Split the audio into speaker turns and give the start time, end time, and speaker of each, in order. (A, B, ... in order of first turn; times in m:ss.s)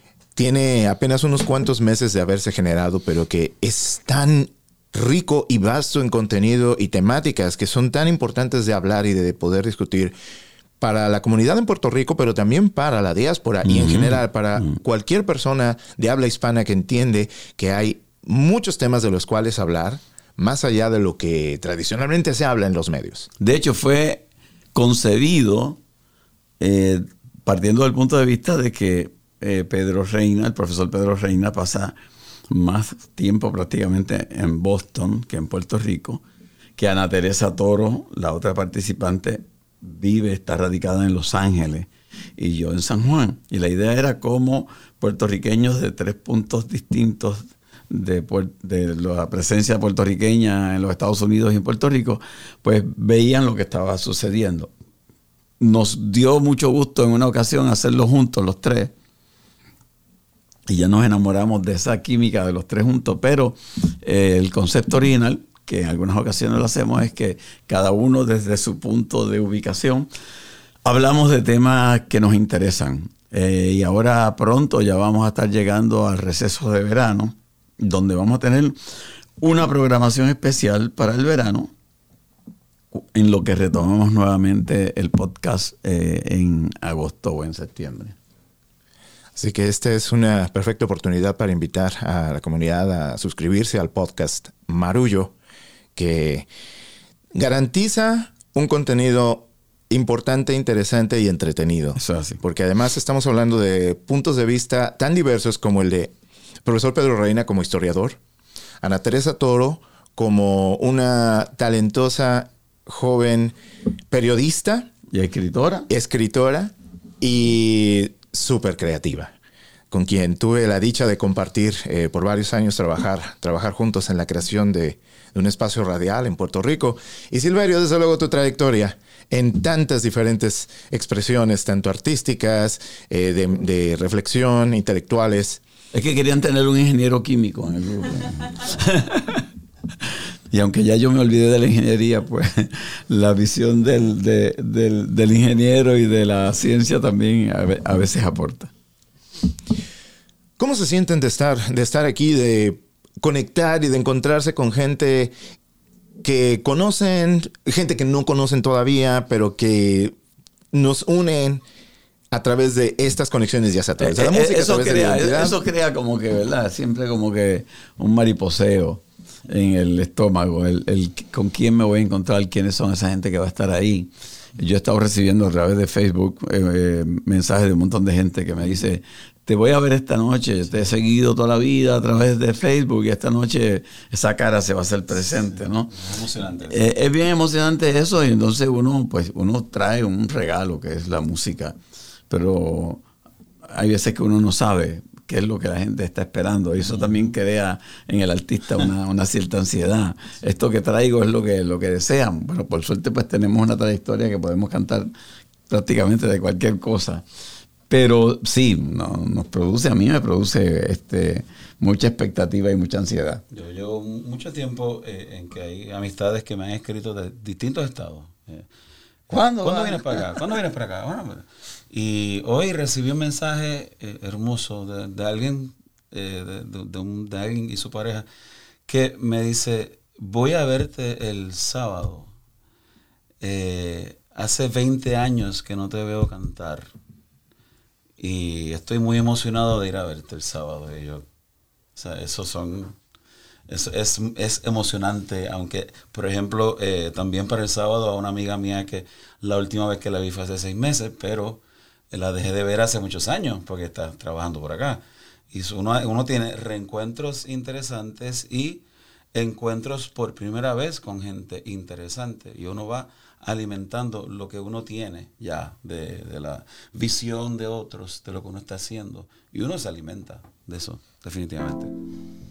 0:00.4-0:10.1 A
0:10.8-0:23.3 A
0:13.6-0:14.7 B
0:23.4-0:25.8 B
0:26.6-0:31.9 B
0:32.5-0:36.2 B
0:36.8-0:54.7 B
0:55.6-0:58.9 B
1:00.7-1:10.1 B
1:10.8-1:21.7 B
1:23.0-1:28.2 B
1:29.4-1:35.3 A
1:36.0-1:36.5 A
1:37.3-1:46.1 A
1:42.0-1:42.4 B
1:46.6-1:48.2 A
1:48.8-1:53.5 A
1:54.1-1:54.9 A
1:55.1-1:55.9 B
1:55.9-1:59.3 A
1:59.9-2:15.6 A
2:15.9-2:19.5 B
2:20.0-2:28.7 B
2:30.6-2:35.3 A
2:36.2-2:40.1 A
2:40.7-2:41.6 A
2:42.3-2:45.6 A
2:44.0-3:05.9 B
3:05.1-3:06.8 C
3:06.7-3:11.8 B
3:12.3-3:13.0 B
3:13.7-3:25.1 B
3:25.7-3:27.2 B
3:27.9-3:33.4 B
3:33.5-3:38.7 C
3:39.3-3:40.3 B
3:39.6-3:48.3 C
3:48.8-3:52.3 C
3:53.4-3:56.9 C
3:58.2-4:01.2 C
4:01.9-4:03.0 C
4:03.7-4:31.9 C